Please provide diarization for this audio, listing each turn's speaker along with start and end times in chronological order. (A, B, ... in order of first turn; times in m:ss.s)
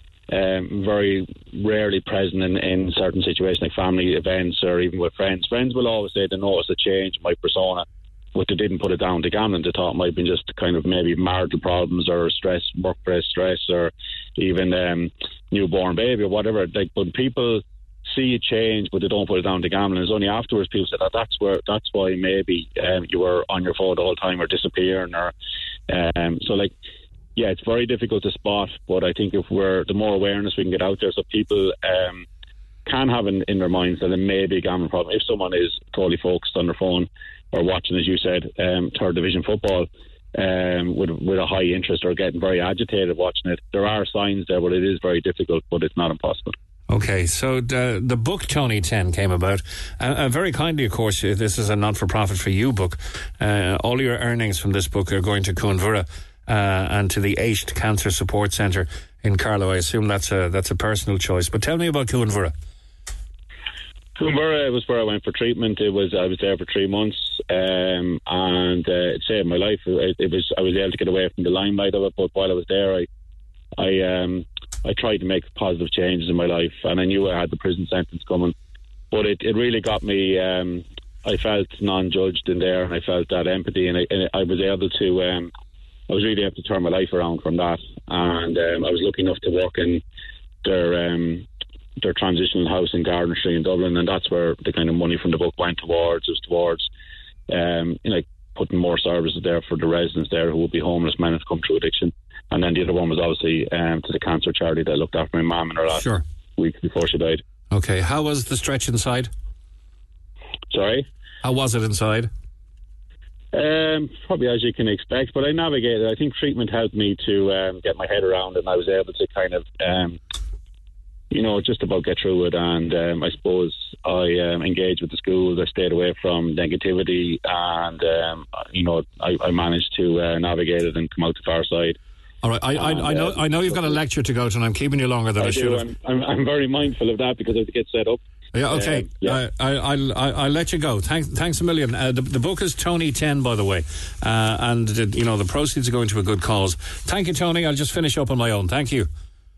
0:00.3-0:25.3 A
0:25.9-0:26.7 A
0:27.4-0:32.2 A
0:32.8-0:46.5 A
0:46.9-1:02.5 B
1:04.2-1:13.1 A
1:13.8-1:18.5 A
1:19.1-1:25.5 A
1:26.1-1:30.0 A
1:30.6-1:31.4 A
1:32.0-1:36.9 A
1:37.5-1:47.4 A
1:45.9-1:46.2 B
1:47.7-1:49.3 B
1:50.7-1:51.0 A
1:51.4-1:52.3 B
1:53.5-2:00.2 A
2:01.3-2:12.0 A
2:12.4-2:15.8 B
2:12.8-2:13.4 A
2:15.4-2:18.2 A
2:18.5-2:29.1 B
2:18.7-2:19.4 A